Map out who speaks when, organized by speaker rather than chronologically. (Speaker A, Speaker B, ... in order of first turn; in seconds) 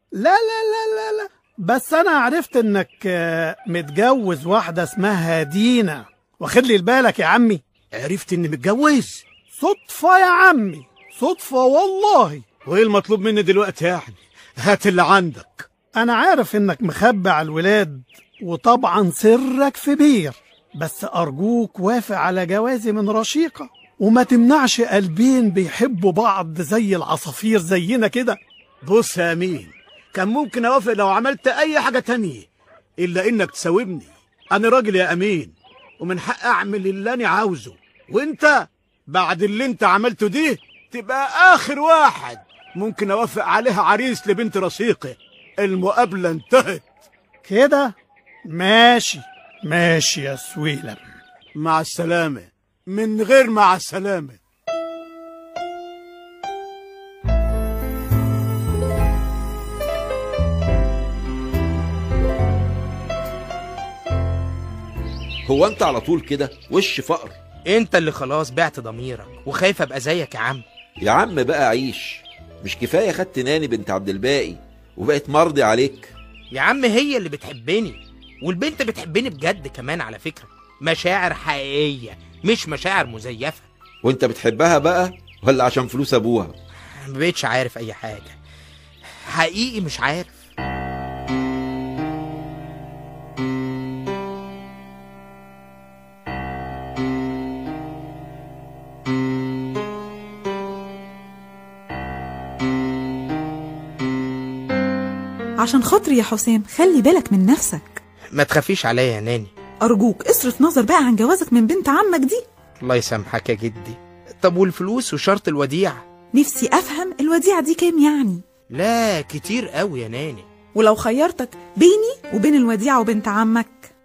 Speaker A: 0.1-7.6, 9.6-12.6, 15.9-28.4, 47.4-47.9, 48.5-51.0
Speaker B: 7.9-9.2, 12.6-15.7, 28.8-32.5, 33.0-46.8, 51.5-54.4
Speaker C: 65.5-67.3, 71.0-76.1, 84.0-86.5
Speaker D: 67.7-70.6, 76.5-83.7, 86.9-88.4, 89.3-90.4, 108.3-109.5, 112.8-116.0, 118.7-120.5
Speaker E: 105.6-108.0, 109.8-112.4, 116.3-118.4, 120.7-123.9